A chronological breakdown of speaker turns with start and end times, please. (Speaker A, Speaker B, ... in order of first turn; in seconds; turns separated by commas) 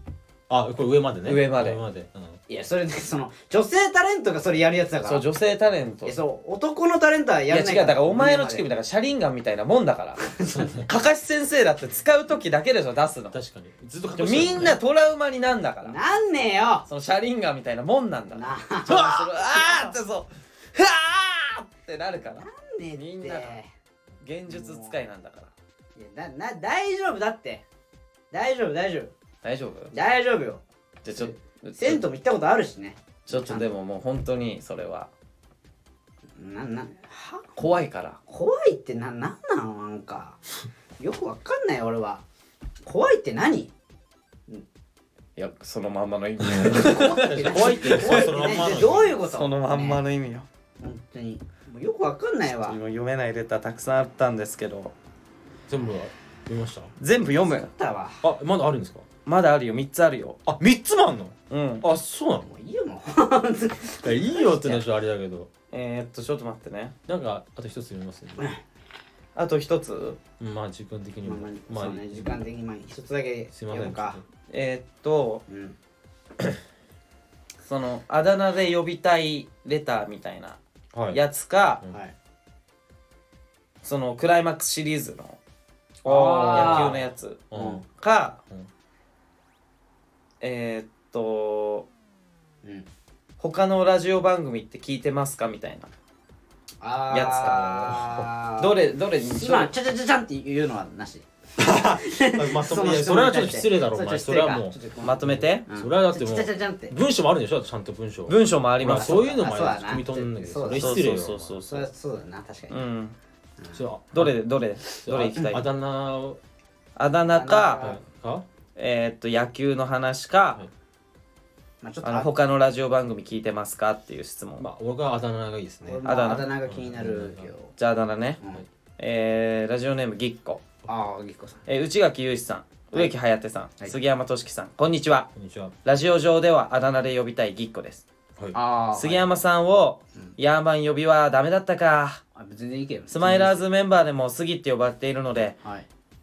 Speaker A: 0.5-2.4, Speaker B: 1.3-1.8, Speaker C: 2.5-5.2, Speaker B: 5.0-6.2, Speaker C: 6.1-8.7, Speaker B: 7.5-10.3, Speaker C: 10.2-10.8, Speaker A: 10.5-10.9, Speaker B: 10.8-13.4, Speaker A: 13.3-14.8, Speaker B: 14.2-16.0, Speaker C: 15.8-16.9, Speaker B: 16.9-23.6, Speaker C: 18.3-19.9, Speaker C: 22.2-23.7, Speaker B: 24.2-25.5, Speaker C: 24.5-25.0, Speaker C: 26.0-27.6, Speaker C: 28.3-29.1, Speaker B: 29.4-29.9, Speaker C: 29.9-33.7, Speaker B: 31.0-32.0, Speaker B: 33.3-35.1, Speaker C: 36.4-37.5, Speaker B: 37.6-38.2, Speaker C: 38.3-40.4, Speaker C: 41.0-42.2, Speaker C: 42.9-43.7, Speaker B: 45.4-48.5, Speaker A: 46.4-49.2, Speaker C: 46.6-50.0, Speaker B: 49.2-50.5, Speaker C: 50.8-52.8, Speaker B: 52.5-54.9, Speaker A: 55.7-56.9, Speaker B: 57.0-57.7, Speaker C: 57.5-58.2, Speaker A: 58.2-59.0, Speaker B: 59.3-60.4, Speaker A: 60.5-62.5, Speaker B: 61.5-61.9, Speaker C: 62.5-64.8, Speaker A: 64.0-65.5, Speaker B: 65.7-67.0, Speaker A: 67.1-68.5, Speaker B: 69.4-70.2, Speaker A: 70.4-72.5, Speaker C: 71.2-74.2, Speaker A: 73.5-74.2, Speaker B: 74.5-75.4, Speaker C: 75.5-75.8, Speaker B: 77.6-80.6, Speaker A: 80.9-81.2, Speaker B: 81.1-81.8, Speaker B: 83.8-85.4, Speaker B: 86.0-88.4, Speaker C: 86.0-87.0, Speaker A: 86.5-87.8, Speaker C: 87.5-87.8, Speaker B: 90.4-91.9, Speaker B: 93.4-95.9, Speaker C: 96.8-98.8, Speaker B: 97.1-98.0, Speaker A: 97.5-98.3, Speaker B: 98.6-99.7, Speaker C: 99.4-101.3, Speaker A: 101.6-111.5, Speaker C: 101.8-107.0, Speaker B: 105.0-105.7, Speaker B: 108.3-109.4, Speaker C: 108.8-111.0, Speaker B: 110.8-111.9, Speaker C: 111.7-112.8, Speaker B: 112.7-113.2, Speaker A: 113.7-114.3, Speaker B: 114.1-115.7, Speaker A: 115.0-116.4, Speaker B: 117.0-117.9, Speaker C: 117.3-118.0, Speaker A: 117.8-118.5, Speaker B: 118.8-120.6, Speaker C: 121.8-122.3, Speaker B: 122.0-124.7, Speaker A: 124.6-126.0, Speaker C: 125.8-127.7, Speaker B: 126.0-126.5, Speaker A: 126.7-127.5, Speaker B: 127.8-128.4, Speaker B: 129.0-130.6, Speaker C: 130.9-131.6, Speaker B: 131.7-135.3, Speaker A: 135.3-135.7, Speaker B: 135.8-138.1, Speaker C: 138.5-139.4, Speaker B: 138.9-142.2, Speaker C: 142.4-143.6, Speaker B: 143.1-145.6